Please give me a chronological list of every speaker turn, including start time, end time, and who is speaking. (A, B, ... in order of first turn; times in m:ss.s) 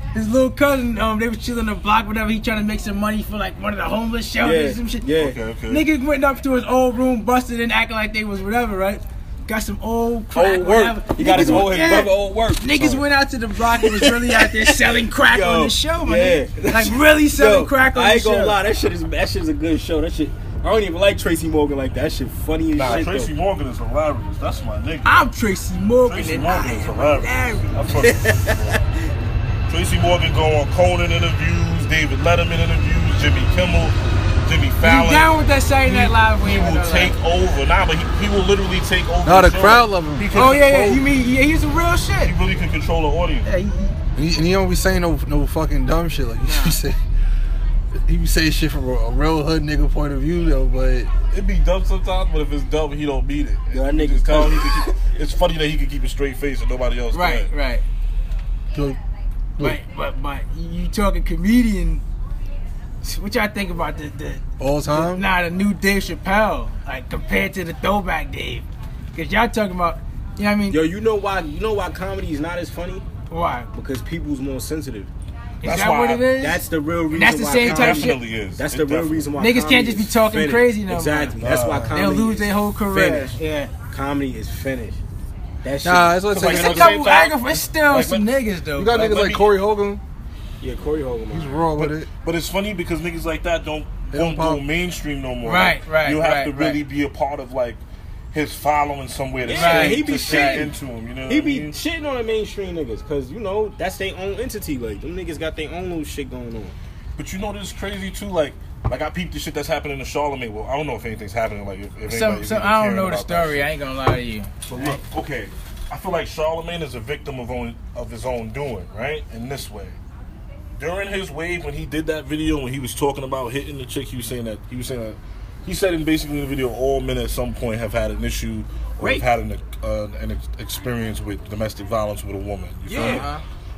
0:00.1-0:05.1 A
0:04.4-0:05.4 B
0:05.2-0:05.9 C
0:05.7-0:18.6 A
0:10.3-0:13.0 B
0:11.3-0:11.7 C
0:13.8-0:23.3 B
0:22.7-0:25.2 C
0:25.0-0:28.1 A
0:26.0-0:28.8 C
0:28.0-0:28.6 B
0:29.7-0:41.0 C
0:34.8-0:37.2 A
0:39.2-0:40.5 D
0:40.3-0:42.4 A
0:42.2-0:43.5 C
0:43.4-0:44.0 A
0:44.2-0:47.0 D
0:46.4-0:46.8 A
0:48.0-0:51.1 D
0:51.3-0:57.5 C
0:53.7-0:54.9 B
0:57.1-0:57.8 A
0:59.6-1:02.0 A
1:03.0-1:10.8 A
1:04.6-1:05.3 D
1:10.7-1:13.1 B
1:13.3-1:13.7 A
1:13.7-1:15.1 B
1:15.6-1:18.2 A
1:15.6-1:16.4 C
1:16.4-1:23.4 B
1:17.6-1:19.4 C
1:19.4-1:21.4 A
1:21.4-1:22.0 C
1:21.9-1:23.7 A
1:23.9-1:25.0 B
1:25.6-1:27.0 B
1:25.8-1:27.0 D
1:26.3-1:28.3 C
1:26.5-1:29.1 A
1:28.8-1:30.0 D
1:28.9-1:29.5 C
1:30.6-1:31.7 B
1:31.3-1:32.1 D
1:31.7-1:41.8 C
1:34.1-1:34.6 D
1:35.4-1:36.8 A
1:39.4-1:40.7 B
1:39.5-1:40.7 A
1:41.3-1:46.8 B
1:47.2-1:53.7 C
1:52.1-1:55.0 A
1:54.7-2:00.0 C
2:00.8-2:13.3 C
2:09.0-2:09.3 B
2:12.9-2:13.4 B
2:13.0-2:13.4 A